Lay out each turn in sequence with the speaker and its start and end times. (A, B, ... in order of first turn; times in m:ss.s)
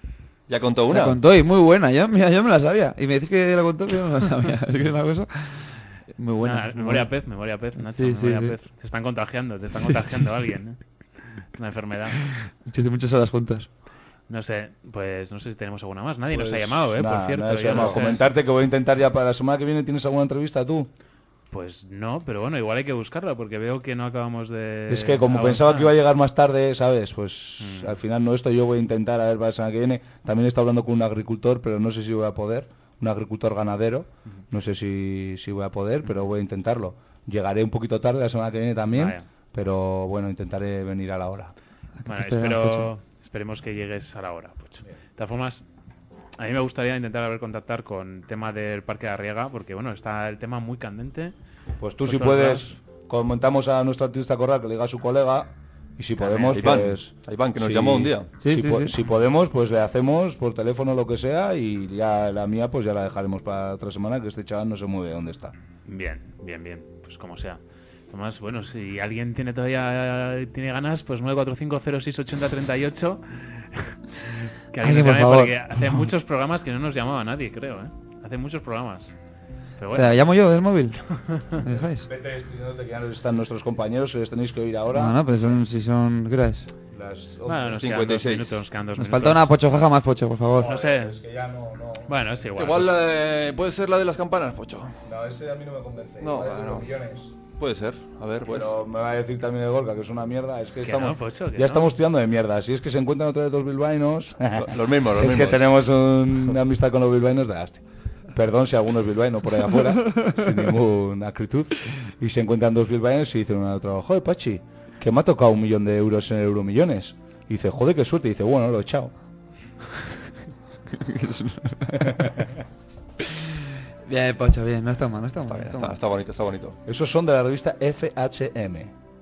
0:00.5-0:01.2 A
0:00.9-0:07.1 B
0:06.4-0:10.8 C
0:07.8-0:08.6 B
0:09.8-0:10.2 B
0:11.5-0:12.2 C
0:12.3-0:13.7 B
0:14.3-0:18.2 C
0:16.3-0:20.9 D
0:21.5-0:25.9 C
0:24.9-0:41.5 D
0:27.6-0:27.9 C
0:38.9-0:39.2 C
0:42.0-0:42.9 B
0:42.0-0:45.6 C
0:46.4-0:51.3 C
0:51.8-1:05.5 D
0:52.0-0:52.8 C
0:56.2-0:56.8 C
0:56.5-0:58.3 A
0:58.4-0:58.9 B
1:05.8-1:13.9 C
1:14.7-1:19.1 C
1:14.8-1:16.0 B
1:19.8-1:20.2 C
1:19.9-1:21.0 B
1:21.2-1:21.6 C
1:21.6-1:22.1 B
1:22.0-1:25.5 D
1:24.9-1:26.7 B
1:26.9-1:27.8 D
1:27.4-1:29.5 C
1:27.8-1:28.6 A
1:29.0-1:30.7 B
1:30.6-1:32.9 D
1:30.6-1:31.2 C
1:32.1-1:32.9 C
1:32.6-1:34.9 A
1:35.0-1:37.3 D
1:36.2-1:36.9 A
1:37.6-1:38.7 A
1:38.5-1:59.1 D
1:40.8-1:41.9 C
1:44.6-1:45.7 A
2:00.9-2:02.3 B
2:02.0-2:02.4 D
2:03.2-2:03.5 B
2:04.0-2:06.0 B
2:05.5-2:06.8 A
2:06.8-2:08.9 D